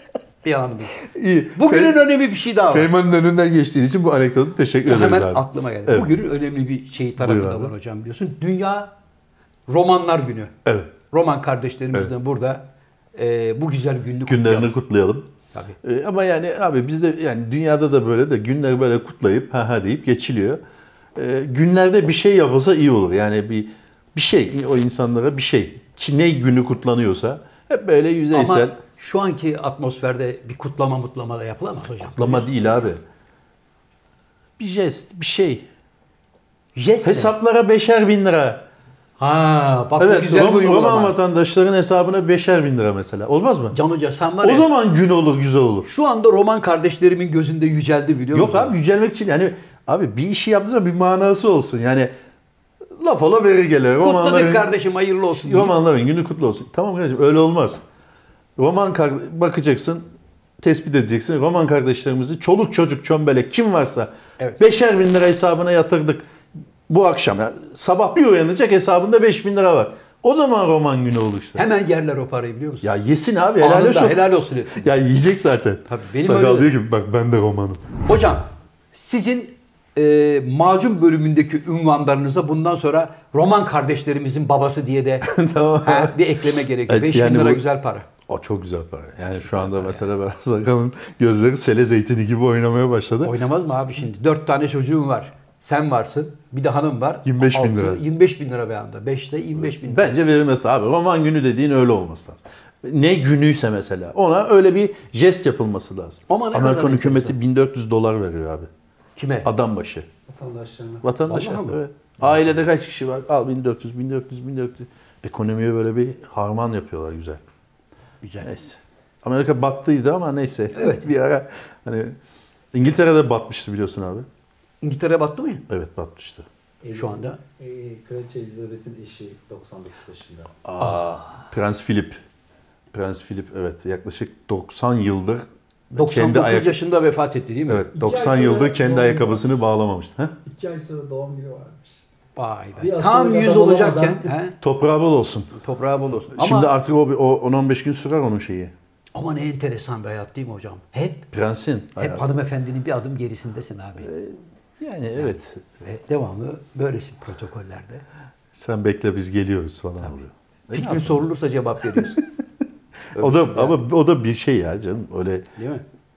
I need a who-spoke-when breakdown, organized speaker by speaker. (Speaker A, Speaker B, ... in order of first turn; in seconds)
Speaker A: 0.4-1.0, 1.6-2.9, 4.8-8.9, 9.7-10.5, 11.1-12.6, 13.2-14.7, 28.3-32.7, 36.8-37.3, 39.2-41.1, 43.7-44.7, 45.9-48.7, 54.0-55.8, 71.5-72.9, 73.6-74.8, 75.9-76.7, 78.0-85.3, 85.8-88.1, 89.5-90.0, 93.2-100.2, 106.3-107.3, 109.2-109.5, 111.3-111.8, 118.2-118.5, 120.7-121.1, 124.8-125.6, 126.9-127.4, 135.9-137.8, 142.3-144.5, 145.5-146.7, 149.1-151.2, 152.0-154.1, 155.2-158.0, 160.7-162.2, 163.1-163.8, 165.6-165.8
Speaker B: 1.0-2.0, 2.7-6.1, 7.2-7.7, 10.6-10.9, 14.2-15.3, 15.8-20.6, 21.1-28.8, 32.2-33.0, 34.6-35.6, 37.0-38.6, 40.0-43.8, 44.4-45.9, 48.3-52.1, 53.0-54.7, 55.3-57.8, 58.6-60.1, 60.6-66.2, 66.9-71.6, 72.8-77.9, 85.2-86.2, 86.9-87.6, 88.3-93.3, 97.2-98.0, 99.8-108.7, 109.4-110.1, 111.0-117.4, 118.4-122.2, 122.7-124.2, 125.7-126.5, 130.6-132.2, 132.9-136.8, 137.7-140.3, 144.6-145.5, 146.3-148.7, 151.3-152.2, 154.0-155.6, 158.5-161.2, 161.9-162.2, 163.1-165.5
Speaker C: 110.3-111.0, 126.8-130.5, 137.9-139.5, 140.4-142.0, 142.8-144.3